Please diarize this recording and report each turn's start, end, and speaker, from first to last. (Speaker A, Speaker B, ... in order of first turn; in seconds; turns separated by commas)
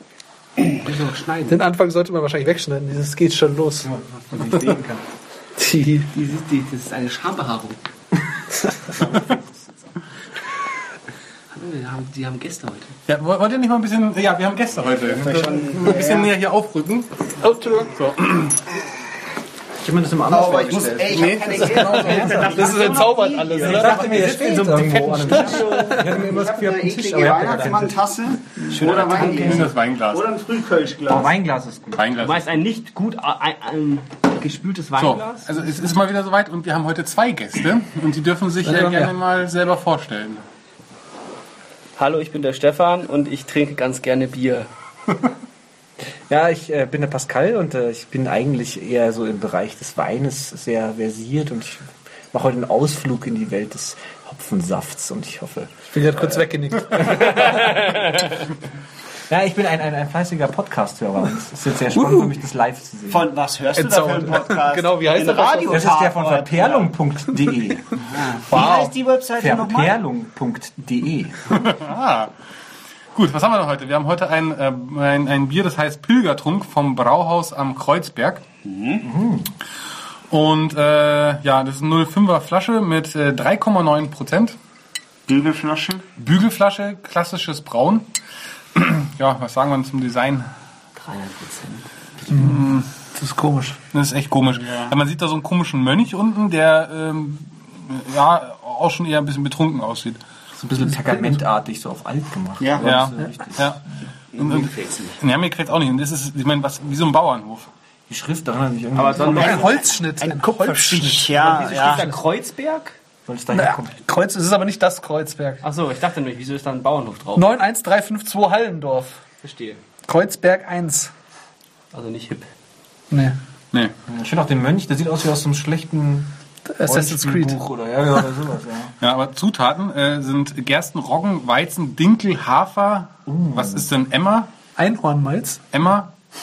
Speaker A: 0.7-1.6, Speaker B: 1.5-3.9, Speaker C: 3.8-5.0, Speaker B: 5.6-6.1, Speaker A: 6.1-7.8, Speaker A: 11.5-12.9, Speaker D: 13.1-17.3, Speaker E: 14.9-16.3, Speaker B: 17.4-17.9, Speaker D: 17.8-18.6, Speaker C: 19.8-21.3, Speaker E: 20.3-24.4, Speaker D: 21.1-22.4, Speaker B: 21.6-26.0, Speaker C: 22.0-22.6, Speaker C: 23.6-28.0, Speaker A: 23.7-24.2, Speaker A: 25.2-25.7, Speaker E: 25.3-31.3, Speaker A: 28.7-29.6, Speaker C: 28.8-29.3, Speaker D: 28.9-30.2, Speaker C: 31.1-32.1, Speaker D: 31.9-32.4, Speaker A: 32.2-35.6, Speaker D: 35.0-40.4, Speaker B: 38.6-39.1, Speaker A: 42.0-44.7, Speaker C: 46.3-56.4, Speaker B: 55.9-57.7, Speaker C: 57.0-57.4, Speaker A: 57.3-58.0, Speaker C: 59.3-63.3, Speaker B: 62.0-62.3, Speaker E: 63.1-66.9, Speaker B: 63.8-66.0, Speaker C: 65.7-68.0, Speaker E: 68.0-70.0, Speaker B: 68.5-68.9, Speaker C: 69.4-71.5, Speaker D: 71.5-72.3, Speaker D: 73.1-78.4, Speaker E: 78.6-79.1, Speaker C: 79.0-79.5, Speaker D: 80.3-84.6, Speaker E: 85.3-86.0, Speaker D: 86.2-88.1, Speaker D: 88.7-90.5, Speaker A: 91.0-91.8, Speaker B: 92.3-93.8, Speaker D: 92.3-92.9, Speaker D: 93.9-100.2, Speaker E: 94.5-94.9, Speaker C: 100.5-103.7, Speaker B: 100.9-101.4, Speaker E: 102.6-102.9, Speaker D: 102.8-103.8, Speaker E: 104.3-105.2, Speaker D: 104.4-107.7, Speaker C: 108.1-109.6, Speaker A: 108.9-109.9, Speaker E: 109.2-112.1, Speaker B: 109.3-112.0, Speaker A: 111.4-113.0, Speaker C: 113.2-114.0, Speaker B: 113.5-115.6, Speaker A: 115.6-117.5, Speaker B: 117.3-119.2, Speaker A: 119.4-119.8, Speaker B: 120.0-121.1, Speaker A: 121.9-122.5, Speaker B: 123.1-123.3, Speaker C: 124.1-126.3, Speaker B: 126.7-127.7, Speaker C: 126.8-128.9, Speaker D: 129.0-134.5, Speaker C: 133.3-133.9, Speaker B: 134.8-135.6, Speaker D: 135.7-136.1